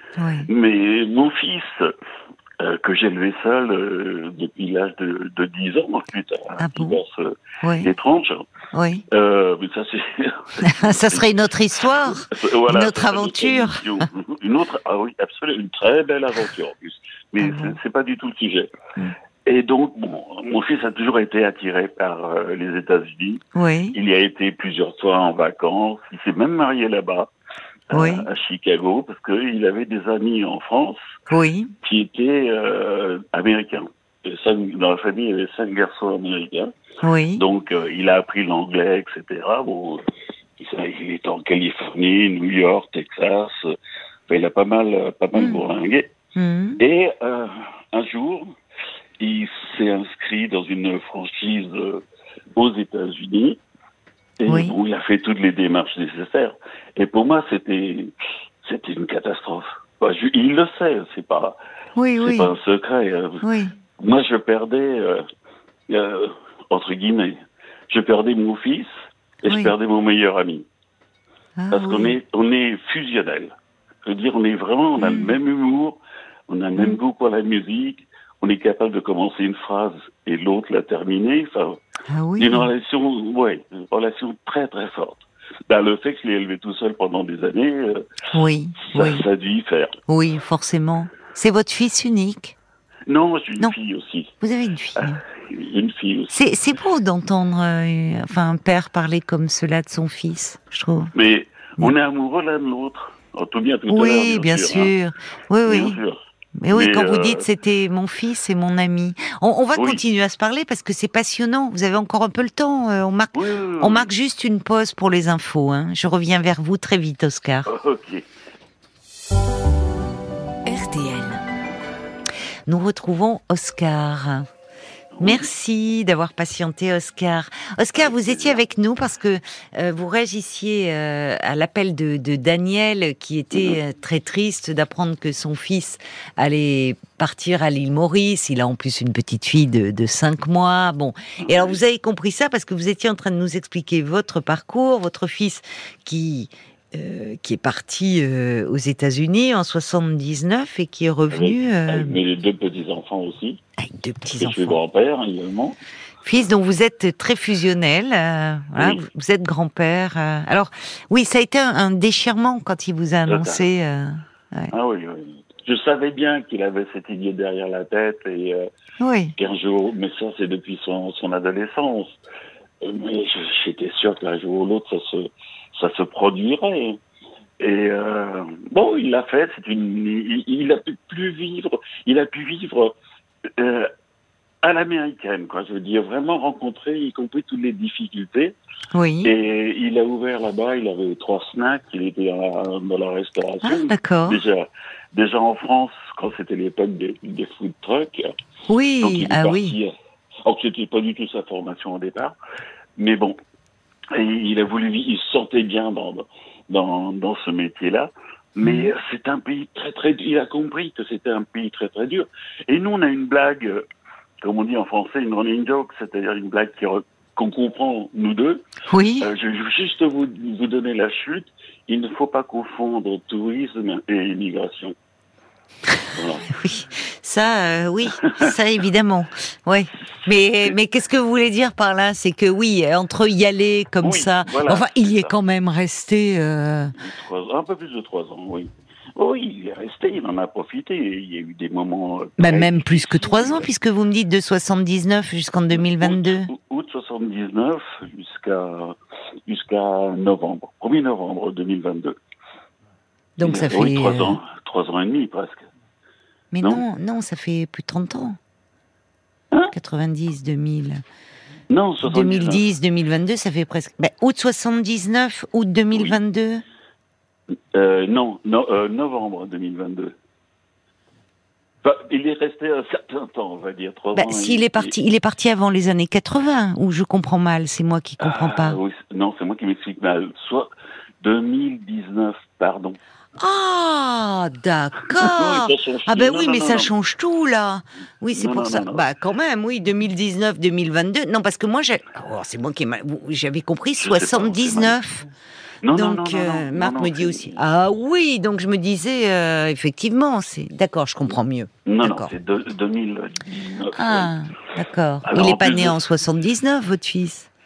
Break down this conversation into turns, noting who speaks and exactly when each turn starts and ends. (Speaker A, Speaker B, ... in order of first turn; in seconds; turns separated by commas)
Speaker A: 0.2-0.5, Speaker B: 0.5-1.9, Speaker B: 2.6-8.5, Speaker A: 6.6-7.0, Speaker A: 7.6-7.9, Speaker A: 8.7-9.0, Speaker B: 9.1-11.3, Speaker A: 10.6-13.8, Speaker B: 11.9-18.7, Speaker A: 17.4-17.8, Speaker B: 19.4-27.3, Speaker A: 23.5-23.9, Speaker B: 27.9-31.0, Speaker A: 27.9-28.3, Speaker A: 31.3-31.7, Speaker B: 31.8-36.7, Speaker A: 37.0-37.4, Speaker B: 37.3-40.0, Speaker B: 40.6-43.7, Speaker B: 44.3-46.1, Speaker A: 46.3-46.8, Speaker B: 46.8-48.5, Speaker B: 49.2-52.0, Speaker B: 52.5-53.6, Speaker B: 54.4-58.1, Speaker A: 54.5-54.8, Speaker B: 58.6-61.6, Speaker A: 62.0-62.5, Speaker B: 62.2-63.4, Speaker A: 63.4-63.7, Speaker B: 64.0-65.2, Speaker B: 65.9-68.9, Speaker B: 69.4-70.7, Speaker A: 71.6-72.2, Speaker B: 71.7-73.5, Speaker B: 74.0-81.8, Speaker A: 75.0-75.3, Speaker A: 82.1-82.7, Speaker B: 82.4-88.1, Speaker A: 88.3-89.2, Speaker B: 88.9-89.9, Speaker A: 90.1-92.5, Speaker B: 93.1-94.3, Speaker A: 94.4-95.2, Speaker B: 95.0-96.4, Speaker A: 96.3-101.1, Speaker B: 101.1-104.9, Speaker A: 103.9-106.0, Speaker B: 105.7-106.2, Speaker A: 106.6-117.7, Speaker B: 106.7-107.5, Speaker B: 109.7-110.0, Speaker B: 113.3-114.1, Speaker B: 117.7-118.2, Speaker A: 120.7-121.4, Speaker A: 122.7-124.5, Speaker B: 125.1-125.5, Speaker A: 125.2-152.2, Speaker B: 128.0-128.6, Speaker B: 133.5-133.8, Speaker B: 141.4-141.8, Speaker B: 151.3-153.6, Speaker A: 153.8-154.8, Speaker B: 154.3-155.8, Speaker A: 156.2-164.7, Speaker B: 158.8-159.0, Speaker B: 163.3-163.7, Speaker B: 164.7-168.7, Speaker A: 169.0-169.3, Speaker B: 169.4-172.2, Speaker B: 172.8-177.0, Speaker B: 177.6-182.9, Speaker B: 183.6-183.9, Speaker B: 184.6-188.6, Speaker A: 188.9-189.3, Speaker B: 189.2-198.3, Speaker A: 193.6-194.4, Speaker A: 198.7-199.8, Speaker B: 199.0-199.9, Speaker B: 200.4-202.3, Speaker B: 203.0-203.3, Speaker B: 204.1-213.8, Speaker A: 208.6-208.9, Speaker B: 214.4-218.6, Speaker A: 218.9-219.3, Speaker B: 219.2-224.9, Speaker B: 226.1-226.5, Speaker A: 226.5-236.9, Speaker B: 228.2-228.5, Speaker B: 234.0-235.3, Speaker B: 236.9-243.7, Speaker A: 242.4-246.5, Speaker B: 245.7-252.2, Speaker A: 253.4-254.4, Speaker B: 253.4-255.7, Speaker A: 256.5-258.4, Speaker A: 259.7-261.0, Speaker B: 261.7-262.6, Speaker A: 262.0-266.6, Speaker B: 265.9-266.2, Speaker B: 267.7-270.1, Speaker B: 271.8-274.9, Speaker A: 274.1-278.8, Speaker B: 278.2-280.7, Speaker B: 281.2-283.0, Speaker A: 283.4-295.3, Speaker B: 285.1-286.9, Speaker B: 288.3-289.1, Speaker B: 294.0-295.0, Speaker B: 295.8-297.6, Speaker A: 295.9-302.3, Speaker B: 301.9-304.3, Speaker A: 303.9-307.5, Speaker B: 305.2-306.0